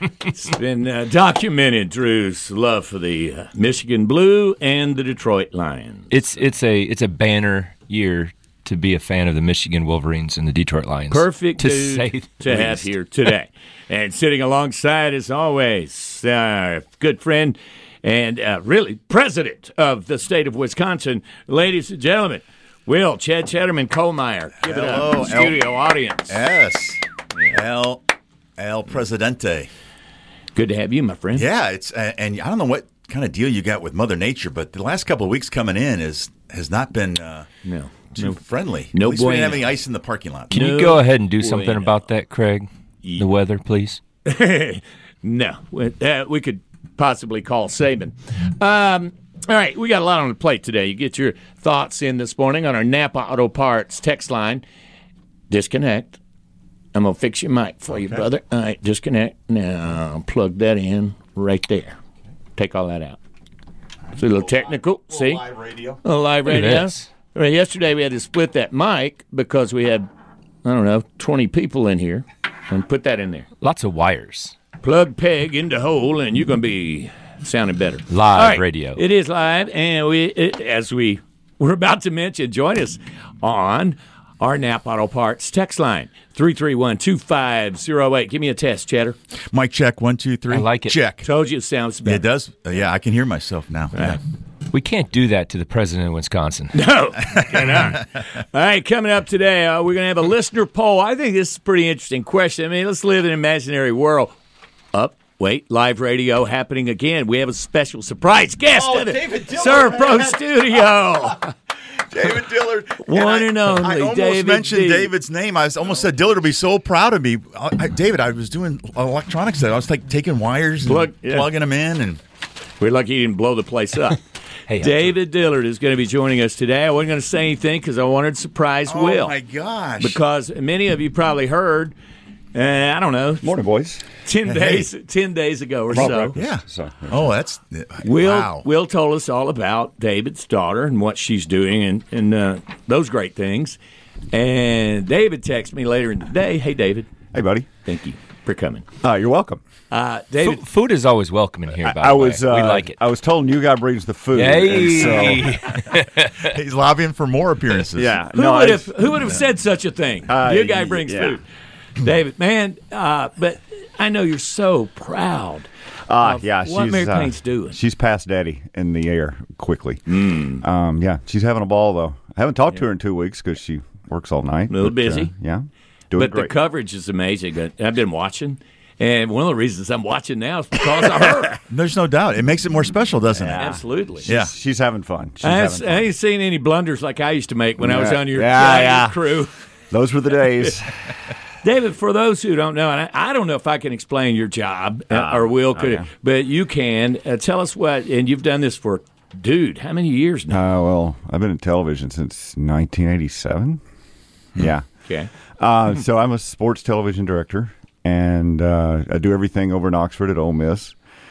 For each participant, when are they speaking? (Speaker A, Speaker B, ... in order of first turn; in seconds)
Speaker A: 0.3-6.1, 11.1-26.4, 30.6-31.5, 37.6-38.4, 38.9-39.7, 40.5-42.0, 44.2-54.6, 55.5-56.2, 56.9-62.0, 62.6-63.2, 64.2-65.5, 66.0-70.1, 70.6-73.5, 74.8-89.2, 91.2-92.2, 96.7-104.3, 104.9-111.5, 113.0-115.1, 120.9-121.5, 122.8-124.2, 124.8-129.3, 130.0-131.9, 132.5-133.5, 134.2-136.4, 138.0-143.8, 144.3-147.1, 147.8-148.9, 149.9-150.6, 158.3-161.4, 162.0-165.7, 166.2-167.8, 170.1-170.6, 174.7-175.3, 176.2-181.6, 183.4-184.3, 185.4-189.5, 191.6-200.6
Speaker B: 6.1-12.9, 40.5-44.0, 66.5-67.1, 73.6-74.5, 78.1-79.0, 90.5-91.0, 94.7-96.9, 124.7-125.1, 150.4-153.0, 154.3-156.5
Speaker C: 24.6-25.6, 26.3-28.1, 28.6-29.7, 31.3-37.5, 38.2-40.5, 64.3-66.0, 89.4-91.3, 92.0-94.2, 97.4-98.0, 112.1-122.2, 128.9-130.2, 134.4-134.9, 136.0-138.7, 155.4-158.2, 181.7-184.5
Speaker D: 108.7-110.4, 133.4-134.1, 135.9-137.3, 147.3-147.7, 149.0-149.6, 151.8-155.6, 157.9-159.0, 160.3-161.4, 166.1-176.6, 183.3-186.1, 187.8-189.2, 189.9-191.1, 195.1-196.1, 200.5-203.8, 204.6-204.9, 205.6-210.9